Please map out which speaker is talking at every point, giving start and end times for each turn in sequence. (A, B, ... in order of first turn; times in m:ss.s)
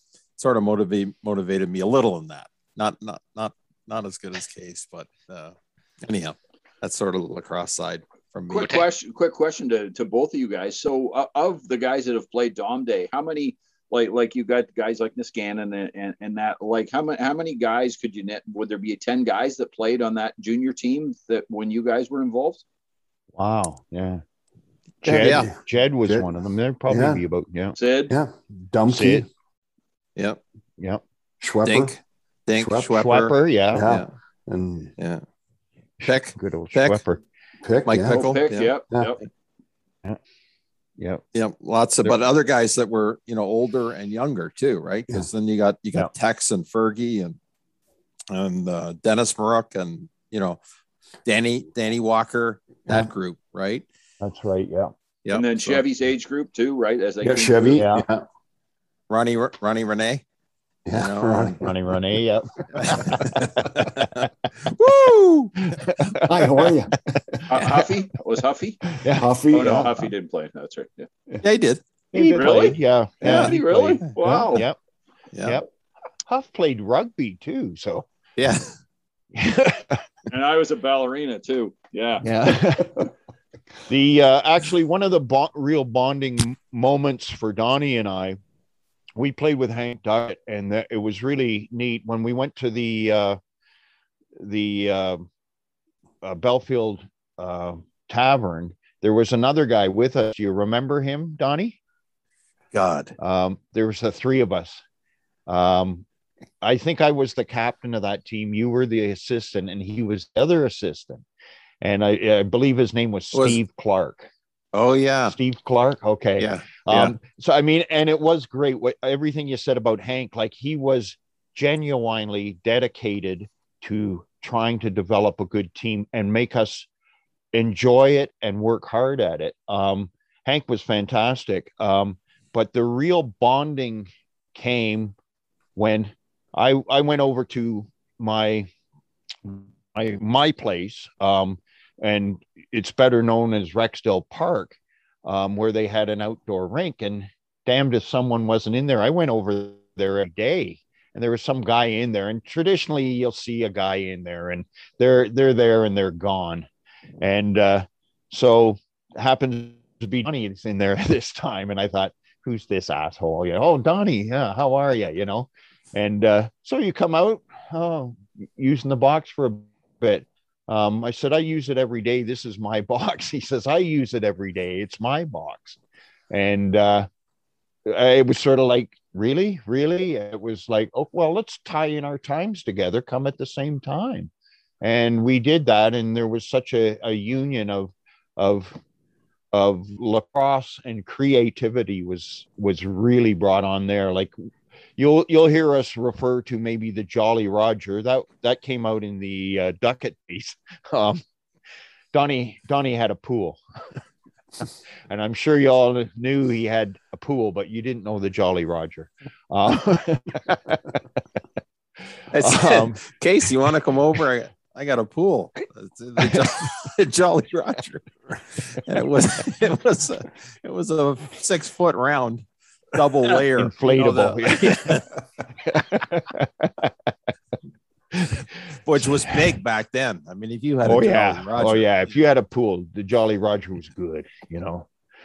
0:00.4-0:08.8 A
0:08.5-0:22.6 B
0:23.4-0:24.2 C
0:25.0-0:27.8 C
0:25.0-0:26.3 D
0:25.2-0:25.5 A
0:26.9-0:27.2 D
0:27.8-0:28.1 B
0:28.1-0:29.3 D
0:28.9-0:29.3 C
0:30.2-0:30.4 A
0:31.4-0:32.0 D
0:31.6-0:34.1 A
0:32.6-0:33.0 D
0:32.9-0:33.9 C
0:33.7-0:34.9 D
0:35.0-0:35.2 A
0:36.0-0:37.2 C
0:36.1-0:37.0 A
0:37.6-0:38.4 D
0:37.9-0:39.3 A
0:38.1-0:39.2 B
0:41.3-0:47.4 A
0:48.3-0:50.6 A
0:51.2-0:53.8 A
0:54.2-0:54.9 C
0:55.2-0:55.8 A
0:55.3-0:57.9 B
0:57.2-0:58.3 D
0:57.8-0:58.0 C
0:59.1-1:00.2 A
1:00.9-1:01.9 D
1:00.9-1:01.6 A
1:01.6-1:03.3 C
1:02.7-1:05.7 A
1:03.2-1:03.7 D
1:05.7-1:06.7 C
1:06.2-1:07.6 D
1:07.5-1:08.8 B
1:08.9-1:09.3 C
1:09.1-1:10.1 D
1:09.5-1:11.1 B
1:11.4-1:11.8 A
1:12.1-1:14.8 C
1:12.2-1:14.7 B
1:13.2-1:13.6 A
1:15.3-1:15.6 A
1:16.3-1:18.1 C
1:18.4-1:18.7 A
1:19.4-1:20.0 C
1:20.3-1:22.2 B
1:22.2-1:23.0 C
1:23.9-1:28.4 C
1:29.2-1:33.4 C
1:34.4-1:35.3 C
1:36.2-1:41.8 C
1:42.7-1:43.2 A
1:43.2-1:44.8 C
1:45.5-1:46.1 C
1:46.6-1:51.2 C
1:51.8-1:54.3 C
1:54.7-1:55.4 A
1:55.3-2:06.9 C
1:56.4-1:57.1 A
2:07.5-2:15.2 C
2:15.8-2:18.7 C
2:19.4-2:36.7 C
2:37.2-2:55.8 C
2:56.3-2:57.1 C
2:57.9-3:04.3 C
3:04.8-3:08.8 C
3:09.5-3:21.2 C
3:22.1-3:23.6 C
3:25.1-3:31.0 C
3:32.3-3:45.1 A
3:32.4-3:33.0 C
3:43.6-3:45.0 C
3:45.6-3:47.1 C
3:48.1-3:48.4 C
3:48.8-3:52.0 A
3:50.8-3:54.9 C